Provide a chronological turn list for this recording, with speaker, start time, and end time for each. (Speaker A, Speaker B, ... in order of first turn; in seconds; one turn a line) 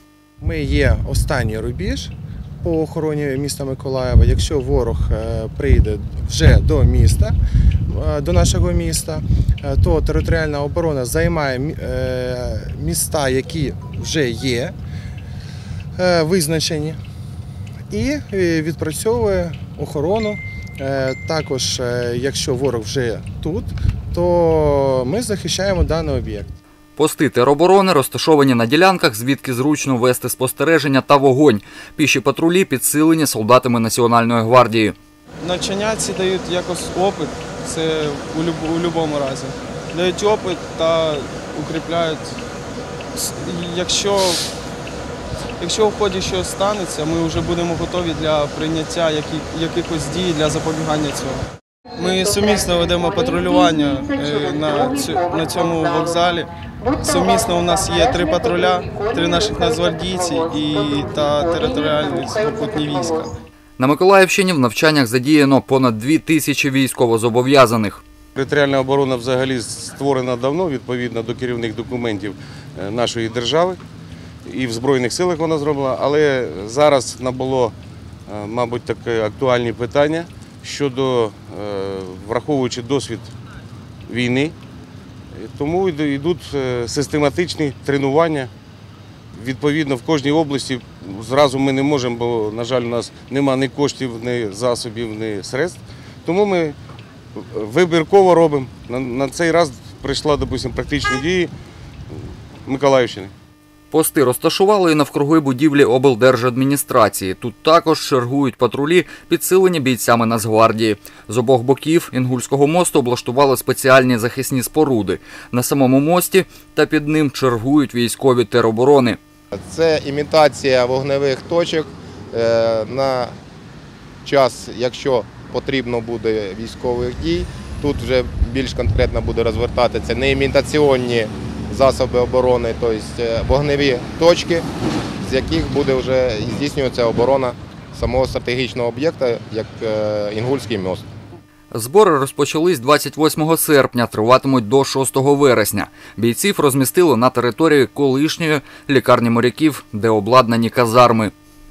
Speaker A: 0.4-7.3
Speaker A: 7.9-14.8
Speaker A: 16.0-17.0
Speaker A: 17.9-26.6
Speaker B: 27.0-35.0
Speaker C: 35.4-42.3
Speaker C: 43.1-44.5
Speaker C: 45.6-63.4
Speaker B: 63.8-68.0
Speaker D: 68.3-73.8
Speaker D: 74.5-77.7
Speaker D: 78.3-83.3
Speaker D: 84.1-84.5
Speaker D: 85.3-88.5
Speaker D: 89.3-96.8
Speaker D: 97.3-101.5
Speaker D: 102.7-103.3
Speaker B: 103.9-119.2
Speaker E: 119.5-123.3
Speaker E: 124.2-134.7
Speaker E: 135.2-141.1
Speaker B: 141.7-151.3